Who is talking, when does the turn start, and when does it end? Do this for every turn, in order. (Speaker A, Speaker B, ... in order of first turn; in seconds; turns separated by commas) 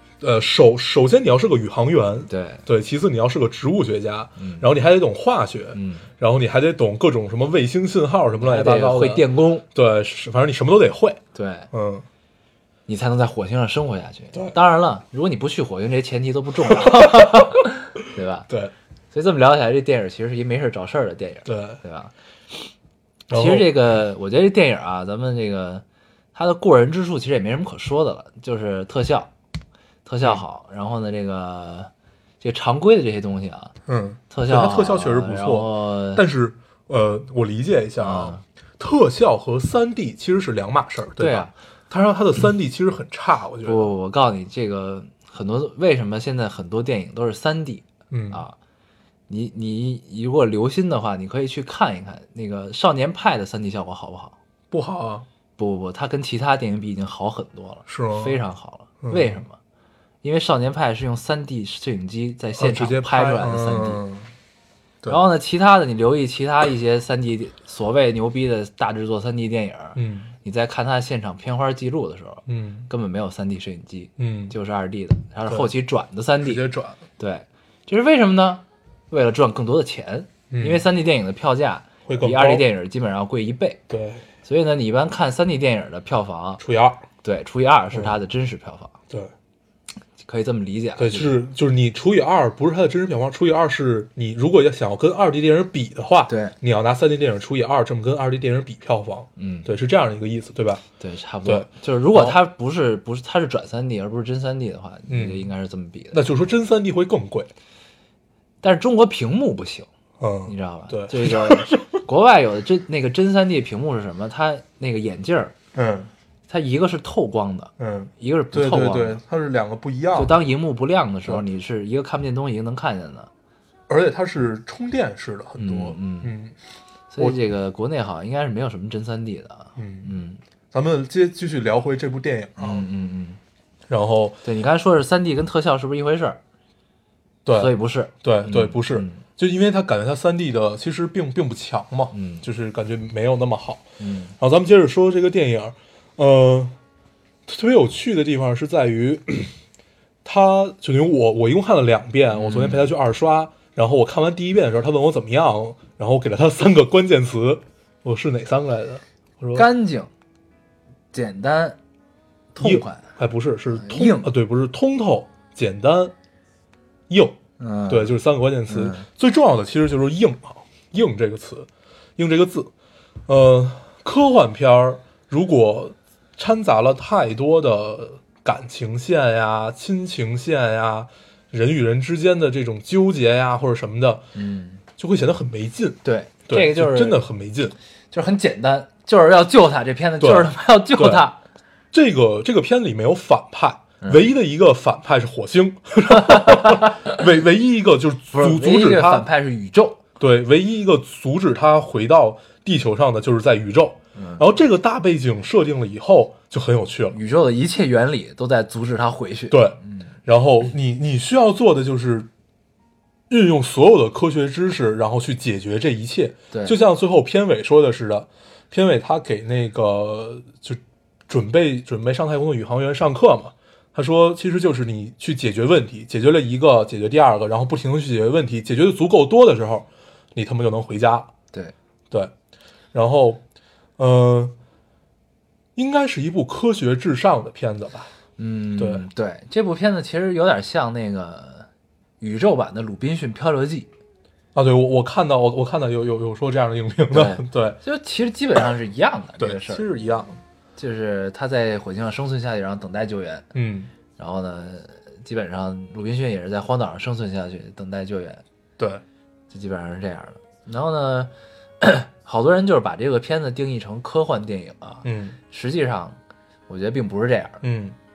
Speaker A: 0.2-11.2, Speaker B: 2.3-2.6, Speaker B: 4.4-4.7, Speaker B: 5.7-6.1, Speaker B: 8.4-9.7, Speaker B: 11.3-11.7, Speaker A: 11.7-12.1, Speaker B: 12.9-18.5, Speaker A: 16.7-17.6, Speaker B: 19.1-22.1, Speaker A: 21.5-21.8, Speaker A: 23.3-23.7, Speaker B: 23.3-29.3, Speaker B: 30.1-33.7, Speaker A: 33.9-43.9, Speaker B: 34.3-36.2, Speaker B: 38.0-38.4, Speaker B: 41.2-41.5, Speaker B: 43.6-48.6, Speaker A: 48.1-48.4, Speaker B: 49.3-54.4, Speaker A: 54.7-55.3, Speaker B: 55.6-59.6, Speaker A: 57.9-58.4, Speaker A: 59.0-59.4, Speaker B: 60.2-64.0, Speaker A: 62.6-64.3, Speaker B: 65.1-76.7, Speaker A: 70.0-70.3, Speaker A: 72.5-72.9, Speaker A: 74.2-74.5, Speaker A: 76.4-77.0, Speaker B: 77.2-83.8, Speaker A: 80.5-80.8, Speaker A: 82.1-82.7, Speaker A: 83.9-84.2, Speaker B: 84.5-86.6, Speaker A: 86.6-87.0, Speaker B: 87.2-89.0, Speaker B: 90.2-91.4, Speaker A: 91.0-100.8, Speaker B: 96.3-96.5, Speaker B: 99.4-99.7, Speaker B: 101.0-106.2, Speaker A: 101.5-102.4, Speaker A: 105.1-105.5, Speaker A: 106.1-107.5, Speaker B: 108.6-109.9, Speaker A: 110.2-112.0, Speaker B: 110.5-115.5, Speaker A: 115.7-116.1, Speaker B: 116.5-119.2, Speaker A: 117.8-120.4, Speaker B: 120.2-123.3, Speaker A: 123.9-126.5, Speaker B: 125.6-126.3, Speaker B: 127.1-130.4, Speaker A: 129.8-130.1, Speaker A: 130.7-132.9, Speaker B: 132.6-133.4, Speaker A: 133.9-134.4, Speaker B: 134.4-136.4, Speaker A: 137.4-143.9, Speaker B: 137.5-139.2, Speaker B: 142.1-142.4, Speaker B: 144.0-144.3, Speaker A: 144.4-146.8, Speaker A: 147.5-149.5, Speaker A: 150.2-159.7, Speaker B: 152.3-152.9, Speaker B: 159.5-160.1, Speaker B: 161.1-161.8, Speaker B: 162.5-163.1, Speaker A: 162.6-166.1, Speaker B: 163.7-164.3, Speaker A: 167.1-172.7, Speaker B: 167.6-168.2, Speaker B: 168.7-169.1, Speaker A: 173.3-184.3, Speaker B: 184.3-184.8, Speaker A: 185.0-187.8, Speaker B: 186.0-187.2, Speaker B: 188.1-191.4, Speaker A: 190.2-191.2, Speaker A: 191.9-199.3, Speaker B: 196.1-197.2, Speaker B: 198.3-200.0, Speaker A: 200.2-207.2, Speaker B: 204.2-204.4, Speaker B: 207.1-210.1, Speaker A: 209.5-212.3, Speaker A: 213.3-231.3, Speaker B: 216.5-216.8, Speaker A: 232.9-233.4, Speaker A: 234.0-234.6, Speaker A: 235.8-238.1, Speaker B: 238.4-241.7, Speaker A: 238.8-239.1, Speaker B: 242.2-243.9, Speaker A: 244.5-247.8, Speaker B: 247.1-249.9, Speaker A: 249.4-250.4, Speaker B: 250.8-253.5, Speaker A: 253.5-253.9, Speaker B: 254.2-258.4, Speaker B: 259.5-267.6, Speaker A: 265.1-265.4, Speaker A: 267.6-268.0